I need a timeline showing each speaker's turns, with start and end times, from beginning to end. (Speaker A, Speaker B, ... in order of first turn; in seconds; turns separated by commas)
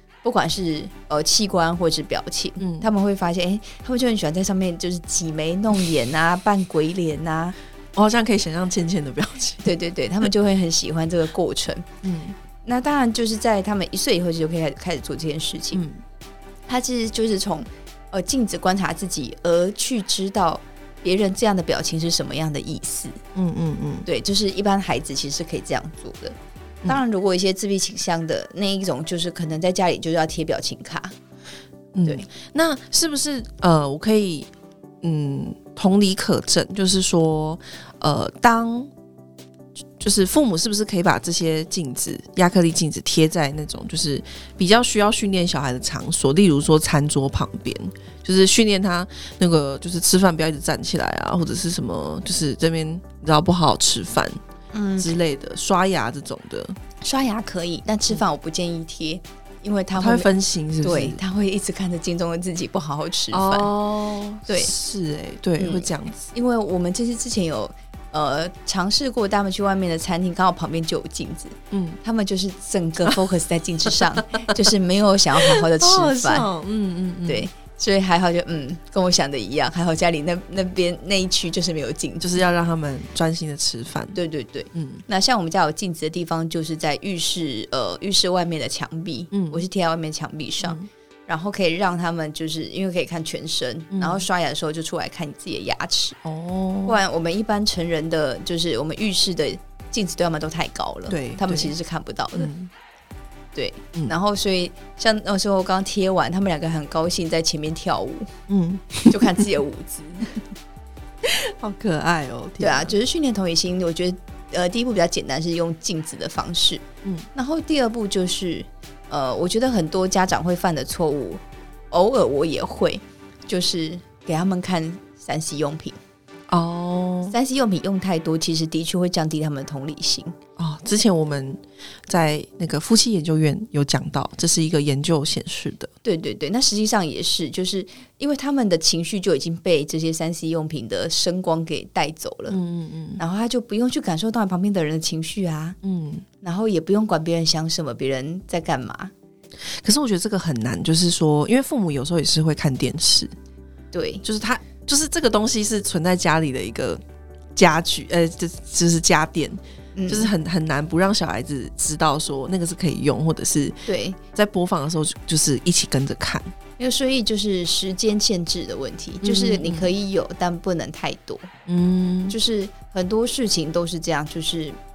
Speaker A: 0.2-7.5, Speaker B: 2.6-2.9, Speaker B: 7.9-9.7, Speaker A: 9.6-11.8, Speaker B: 12.0-12.3, Speaker A: 12.6-15.8, Speaker B: 15.7-16.0, Speaker A: 16.7-23.2, Speaker B: 23.3-24.1, Speaker A: 24.0-31.1, Speaker B: 31.9-34.5, Speaker B: 35.0-38.9, Speaker B: 40.0-54.4, Speaker A: 54.7-55.1, Speaker B: 55.0-56.8, Speaker A: 57.0-63.7, Speaker B: 59.9-61.2, Speaker B: 63.3-66.3, Speaker A: 64.5-64.7, Speaker A: 65.6-76.5, Speaker B: 71.7-72.0, Speaker B: 75.6-77.5, Speaker A: 77.3-82.4, Speaker B: 82.2-84.2, Speaker A: 84.1-96.2, Speaker B: 84.7-85.0, Speaker B: 89.3-89.6, Speaker B: 90.6-90.9, Speaker B: 93.9-94.3, Speaker B: 96.2-97.0, Speaker A: 96.8-102.5, Speaker B: 101.1-101.7, Speaker B: 102.3-102.7, Speaker A: 103.5-108.3, Speaker B: 108.5-109.5, Speaker A: 109.0-110.5, Speaker B: 111.2-113.0, Speaker A: 112.6-126.0, Speaker B: 126.5-127.3, Speaker A: 127.3-130.3, Speaker B: 130.6-135.9, Speaker A: 136.0-142.6, Speaker B: 142.5-143.2, Speaker A: 143.2-145.8, Speaker B: 145.8-146.2, Speaker A: 146.4-149.1, Speaker B: 149.7-153.3, Speaker A: 153.9-154.2, Speaker B: 154.2-157.0, Speaker B: 157.6-163.8, Speaker A: 159.9-160.3, Speaker A: 163.8-164.2, Speaker B: 164.3-166.5, Speaker A: 166.8-171.5, Speaker B: 169.2-169.9, Speaker B: 171.7-172.3, Speaker A: 172.3-174.8